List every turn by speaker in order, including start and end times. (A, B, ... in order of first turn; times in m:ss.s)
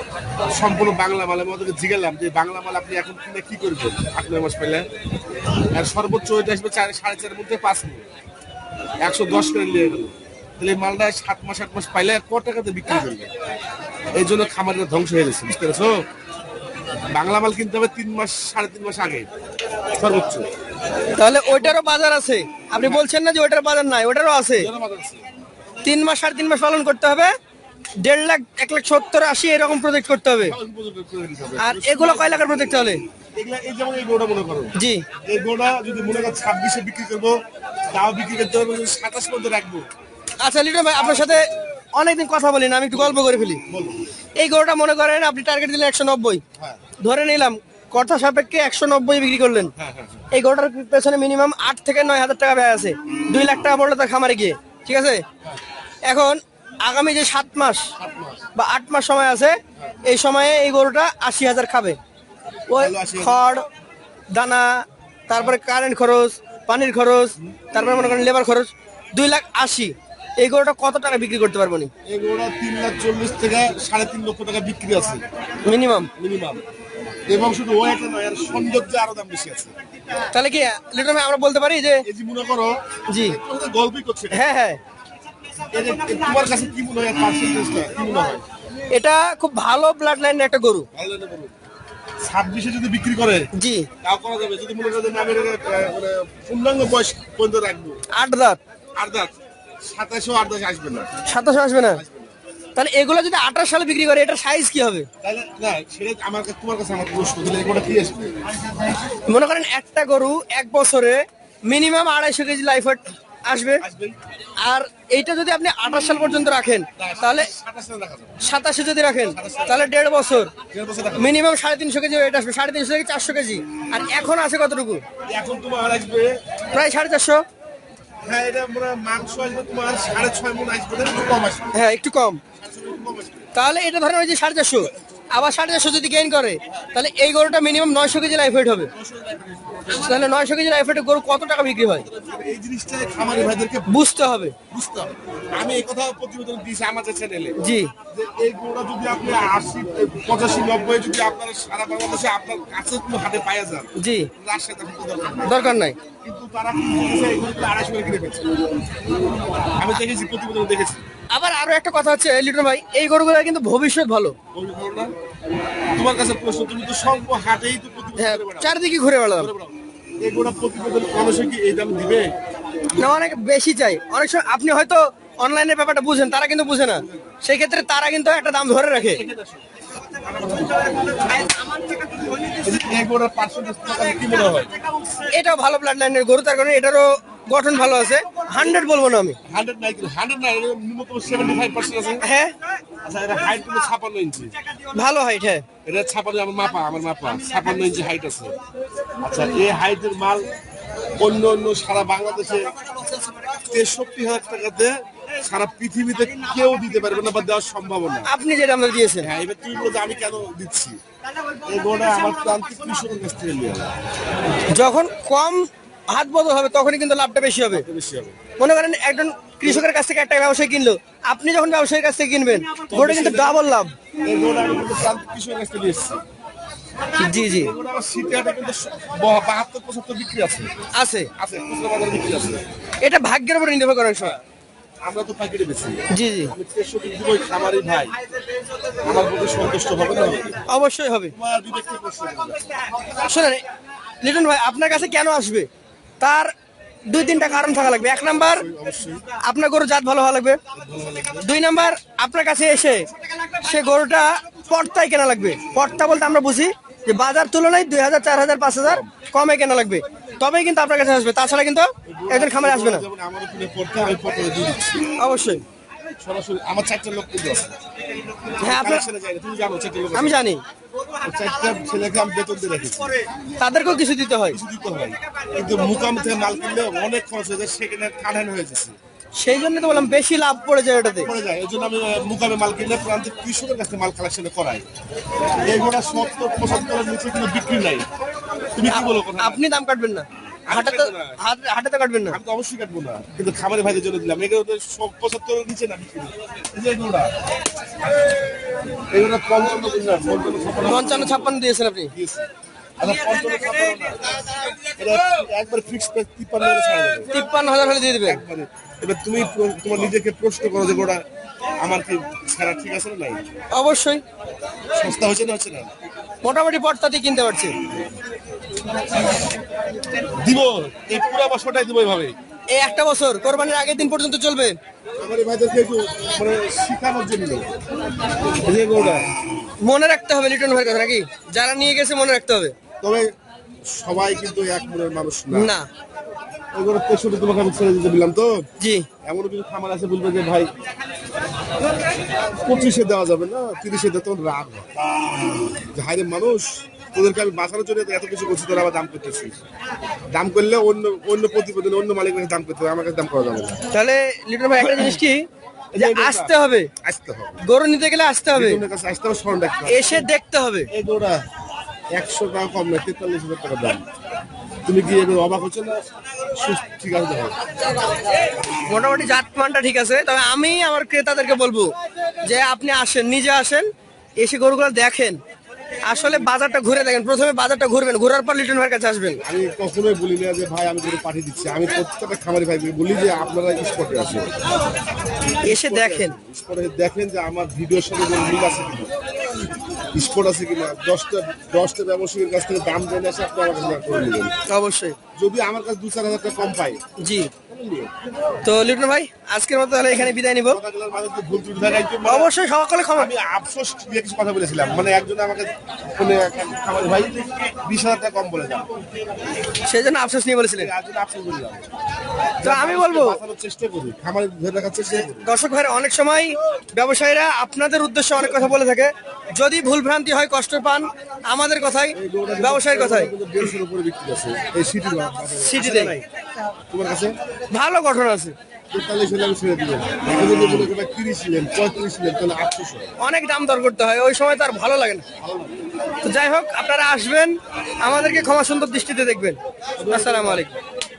0:00.5-0:04.8 A
0:05.7-0:08.1 A
0:09.0-0:13.3 A
0:14.1-0:16.0 A
0:17.1-0:19.3 A
0:19.9-0:20.5 A
0:21.1-0:24.7 B
0:22.8-0:23.0 A
0:24.6-0:25.2 A
0:25.8-0:27.3 B
0:28.0-0:30.6 B
0:30.4-0:32.7 A
0:31.6-0:33.0 B
0:33.3-0:37.4 A
0:34.8-0:35.0 B
0:37.9-0:39.9 A
0:40.4-0:43.6 B
0:40.9-0:41.6 A
0:42.9-0:44.0 A
0:44.4-0:46.4 B
0:47.0-0:49.7 B
0:49.8-0:50.3 A
0:50.3-0:55.2 B
0:56.0-0:57.9 B
0:58.0-0:58.4 A
0:58.5-1:02.0 B
1:02.7-1:03.6 B
1:02.7-1:03.4 A
1:04.3-1:11.9 B
1:12.0-1:15.2 A
1:15.6-1:16.1 B
1:16.2-1:16.6 A
1:17.3-1:19.7 A
1:20.2-1:22.0 B
1:22.0-1:24.4 A
1:23.1-1:23.4 B
1:24.3-1:24.8 B
1:25.7-1:28.4 A
1:28.9-1:30.9 B
1:30.9-1:31.5 A
1:32.2-1:33.5 A
1:33.5-1:33.9 B
1:34.0-1:38.0 A
1:38.1-1:38.6 B
1:39.0-1:41.1 A
1:41.2-1:42.0 B
1:41.9-1:42.4 A
1:42.8-1:45.1 B
1:45.2-1:48.3 A
1:49.3-1:53.8 B
1:53.8-1:54.2 A
1:54.6-1:57.5 B
1:57.0-1:58.4 A
1:58.4-2:00.5 B
1:59.2-1:59.9 A
2:00.7-2:01.4 A
2:01.1-2:05.0 B
2:05.3-2:06.4 A
2:06.7-2:07.4 B
2:08.2-2:11.7 A
2:11.7-2:12.4 B
2:12.6-2:13.5 A
2:13.5-2:18.9 B
2:18.9-2:20.1 A
2:19.9-2:22.0 B
2:22.0-2:24.0 A
2:23.9-2:24.6 B
2:24.7-2:27.6 A
2:27.6-2:27.9 B
2:28.1-2:38.5 A
2:34.0-2:34.3 B
2:35.4-2:36.0 B
2:39.8-2:41.0 A
2:41.3-2:44.4 B
2:44.5-2:45.1 A
2:45.9-2:48.7 A
2:48.2-2:49.5 B
2:49.4-2:52.3 A
2:52.9-2:59.2 B
2:56.9-2:57.4 A
2:59.0-3:01.4 A
3:02.5-3:04.7 A
3:05.3-3:09.4 B
3:09.5-3:12.2 A
3:12.2-3:12.5 B
3:13.0-3:14.5 A
3:14.9-3:15.6 B
3:15.8-3:18.5 A
3:19.2-3:20.5 A
3:21.2-3:22.7 A
3:23.4-3:28.3 A
3:28.2-3:29.3 B
3:29.2-3:31.0 A
3:31.5-3:33.9 A
3:34.7-3:37.8 B
3:37.7-3:38.4 A
3:38.6-3:43.9 B
3:39.6-3:39.9 A
3:42.9-3:43.6 A
3:44.2-3:46.2 A
3:47.2-3:47.7 B
3:47.2-3:50.7 A
3:50.9-3:51.3 B
3:51.3-3:52.6 A
3:53.0-3:54.4 B
3:55.0-3:58.2 A
3:56.1-3:56.5 B
3:59.0-4:00.6 A
4:00.7-4:01.3 B
4:01.3-4:02.9 A
4:03.2-4:03.6 B
4:04.2-4:05.7 B
4:06.2-4:06.5 B
4:07.1-4:08.6 B
4:08.0-4:09.2 A
4:09.4-4:10.6 B
4:10.7-4:11.5 A
4:11.4-4:23.0 B
4:22.0-4:25.1 A
4:25.2-4:25.6 B
4:26.2-4:30.4 A
4:28.6-4:29.0 B
4:30.1-4:30.6 B
4:31.2-4:33.2 A
4:33.6-4:34.6 B
4:34.5-4:39.0 A
4:39.4-4:41.3 B
4:41.2-4:44.8 A
4:45.6-4:48.1 A
4:48.7-4:49.6 A
4:48.8-4:52.4 B
4:50.7-4:51.4 A
4:52.3-4:57.3 A
4:59.1-5:01.6 A
5:00.8-5:02.1 B
5:02.1-5:02.5 A
5:03.0-5:04.3 A
5:04.9-5:07.3 A
5:07.3-5:08.4 B
5:08.2-5:11.2 A
5:11.8-5:13.4 A
5:13.7-5:14.2 B
5:14.9-5:15.9 A
5:16.4-5:17.7 B
5:20.3-5:22.4 A
5:22.7-5:24.8 B
5:25.2-5:27.8 A
5:28.6-5:29.3 A
5:29.8-5:32.7 B
5:33.0-5:33.3 A
5:33.9-5:35.7 A
5:35.5-5:35.9 B
5:36.7-5:38.7 A
5:38.8-5:39.1 B
5:39.2-5:40.7 A
5:42.6-5:44.9 A
5:45.8-5:49.6 A
5:50.3-5:53.8 A
5:53.9-5:56.9 B
5:54.8-5:55.2 A
5:55.9-5:57.6 A
5:57.6-5:58.8 B
5:58.5-6:00.3 A
5:59.8-6:00.9 B
6:00.9-6:01.4 A
6:02.1-6:04.0 A
6:04.8-6:07.6 A
6:08.8-6:11.9 B
6:12.4-6:13.9 B
6:14.4-6:15.4 B
6:16.0-6:19.4 B
6:19.4-6:24.5 A
6:25.6-6:26.4 B
6:25.6-6:29.1 A
6:30.1-6:34.5 A
6:34.7-6:35.2 B
6:35.3-6:37.0 A
6:37.2-6:37.5 B
6:37.7-6:38.1 A
6:38.6-6:40.8 B
6:40.1-6:42.5 A
6:42.2-6:43.3 B
6:43.2-6:48.9 A
6:49.8-6:50.9 B
6:50.7-6:51.8 A
6:52.6-6:55.5 A
6:52.6-6:53.4 B
6:55.1-7:03.3 B
7:02.1-7:06.2 A
7:05.6-7:06.2 B
7:06.9-7:07.4 A
7:07.7-7:08.5 B
7:08.9-7:13.1 A
7:13.2-7:15.2 B
7:15.4-7:15.8 A
7:16.2-7:20.7 B
7:20.0-7:20.7 A